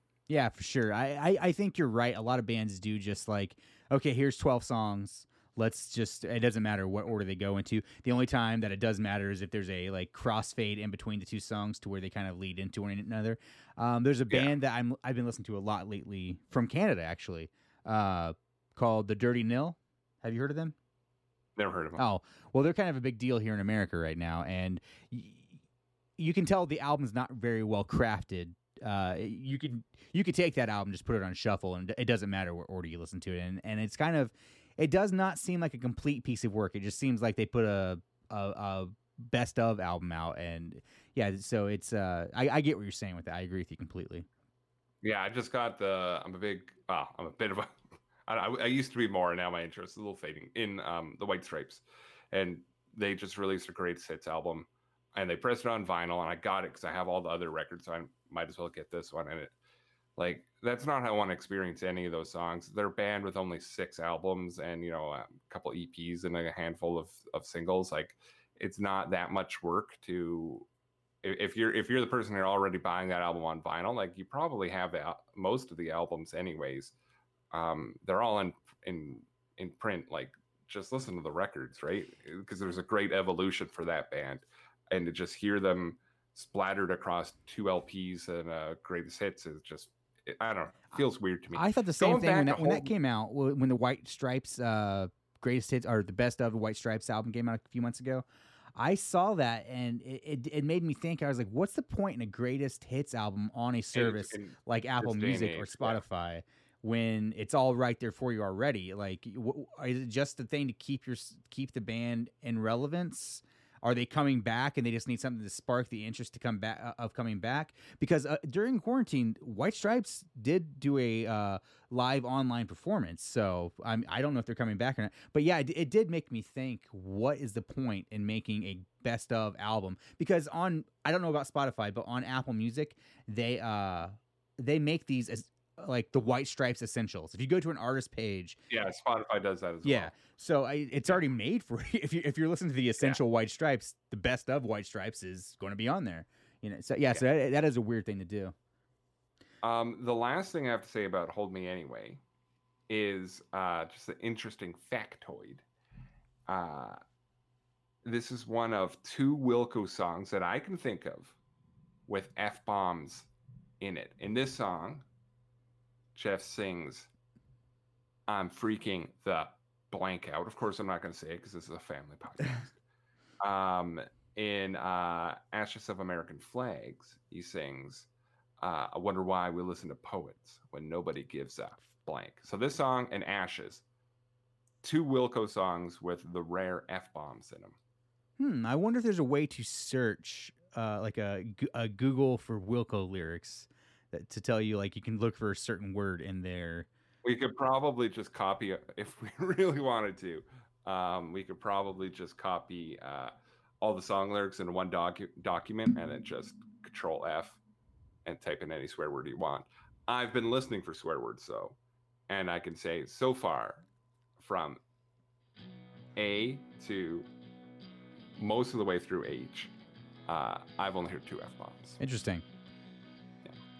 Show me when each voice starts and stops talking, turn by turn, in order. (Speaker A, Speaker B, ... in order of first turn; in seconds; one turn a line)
Speaker A: 0.3-20.7
Speaker B: 21.6-22.0
Speaker A: 22.0-25.6
Speaker A: 26.2-44.2
Speaker B: 45.0-59.5
Speaker B: 60.2-70.7
Speaker B: 71.2-76.9
Speaker B: 77.5-92.9
Speaker A: 91.5-98.2
Speaker A: 98.8-138.6
Speaker B: 103.9-106.0
Speaker B: 138.7-140.2
Speaker A: 139.8-148.5
Speaker B: 149.6-152.2
Speaker B: 152.9-155.6
Speaker B: 156.5-157.0
Speaker B: 158.0-161.3
Speaker B: 162.1-163.3
Speaker B: 163.8-165.1
Speaker B: 166.1-167.1
Speaker B: 168.3-172.8
Speaker B: 173.4-178.1
Speaker B: 178.6-183.8
Speaker B: 184.8-187.8
Speaker A: 188.4-196.9
Speaker B: 197.2-207.6
Speaker B: 208.2-211.8
Speaker B: 212.3-213.8
Speaker B: 214.4-214.8
Speaker B: 216.2-217.3
Speaker B: 218.4-219.7
Speaker B: 220.3-222.0
Speaker A: 222.0-222.4